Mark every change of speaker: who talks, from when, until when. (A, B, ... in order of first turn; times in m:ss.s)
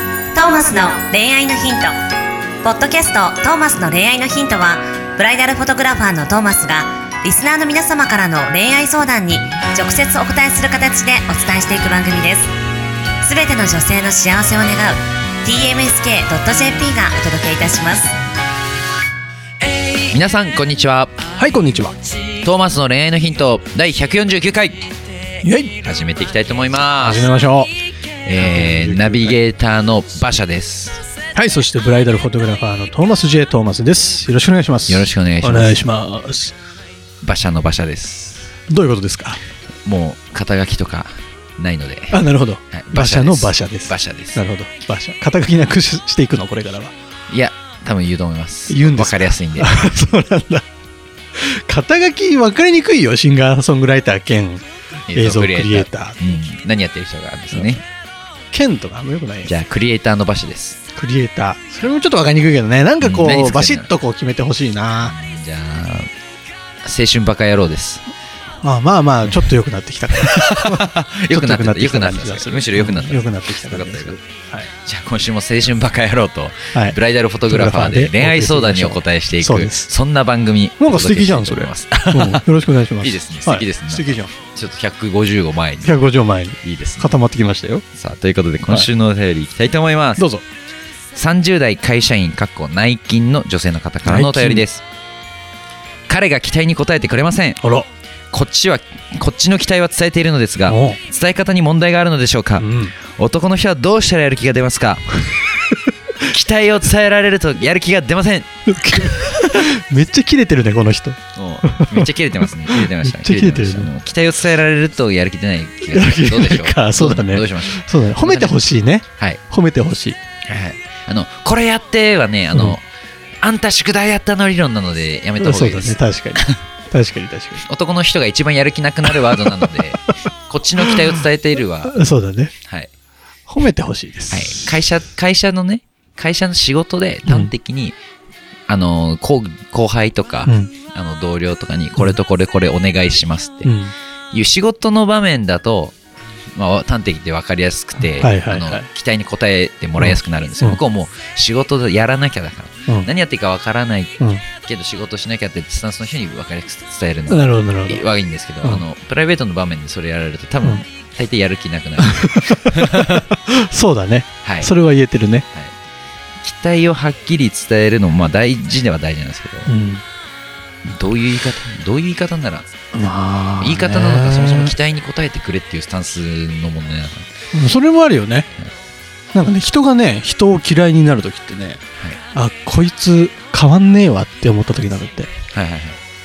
0:00.3-0:01.9 A
0:02.6-0:12.5 A
0:13.2-0:18.2 A
0:19.6-0:21.2 B
0:21.4-0:22.0 C
0:22.3-0:24.9 B
0:25.4-0:25.7 C
0:25.8-0:27.3 B
0:27.0-0:27.7 C
0:28.2-0:31.0 B
0:28.3-0:29.4 C
0:31.4-0:36.6 C
0:34.9-0:35.8 B
0:37.2-0:38.5 B
0:38.7-0:39.4 C
0:39.8-0:42.2 B
0:42.1-0:46.9 C
0:42.7-0:44.4 B
0:47.3-0:49.7 B
0:48.7-0:50.6 C
0:51.4-0:56.2 C
0:55.1-0:57.8 B
0:57.5-0:57.8 C
0:58.5-0:59.5 C
0:59.4-1:00.8 B
1:01.0-1:05.2 C
1:03.0-1:03.9 B
1:05.0-1:06.1 B
1:06.8-1:08.0 B
1:08.6-1:14.7 C
1:10.2-1:14.2 B
1:14.9-1:22.4 B
1:16.7-1:19.9 C
1:20.8-1:24.3 C
1:23.0-1:26.0 B
1:25.8-1:27.8 C
1:26.6-1:27.1 B
1:28.0-1:30.2 B
1:30.2-1:30.4 C
1:31.2-1:34.8 B
1:34.0-1:34.6 C
1:36.1-1:37.6 B
1:37.6-1:37.9 C
1:38.3-1:45.2 B
1:40.7-1:41.0 C
1:42.6-1:43.0 C
1:46.2-1:48.5 B
1:48.7-1:53.9 C
1:51.4-1:58.6 B
1:55.9-2:00.2 C
2:00.5-2:02.8 B
2:02.5-2:02.8 C
2:03.4-2:06.6 B
2:05.4-2:07.6 C
2:07.7-2:12.0 B
2:09.3-2:09.7 C
2:10.8-2:11.1 C
2:11.8-2:12.5 C
2:13.5-2:14.7 C
2:14.3-2:18.0 B
2:17.3-2:17.5 C
2:18.7-2:23.7 B
2:20.5-2:20.7 C
2:23.6-2:23.9 C
2:24.3-2:26.0 B
2:26.6-2:43.3 B
2:28.2-2:28.9 C
2:30.0-2:30.8 C
2:34.2-2:34.5 C
2:37.3-2:38.0 C
2:42.0-2:45.5 C
2:44.4-2:44.7 B
2:46.4-2:49.7 B
2:49.7-2:50.0 C
2:50.9-2:52.7 B
2:52.9-2:54.8 C
2:53.6-2:57.3 B
2:57.5-2:58.5 C
2:59.3-3:01.8 C
3:02.3-3:05.3 C
3:05.5-3:06.0 B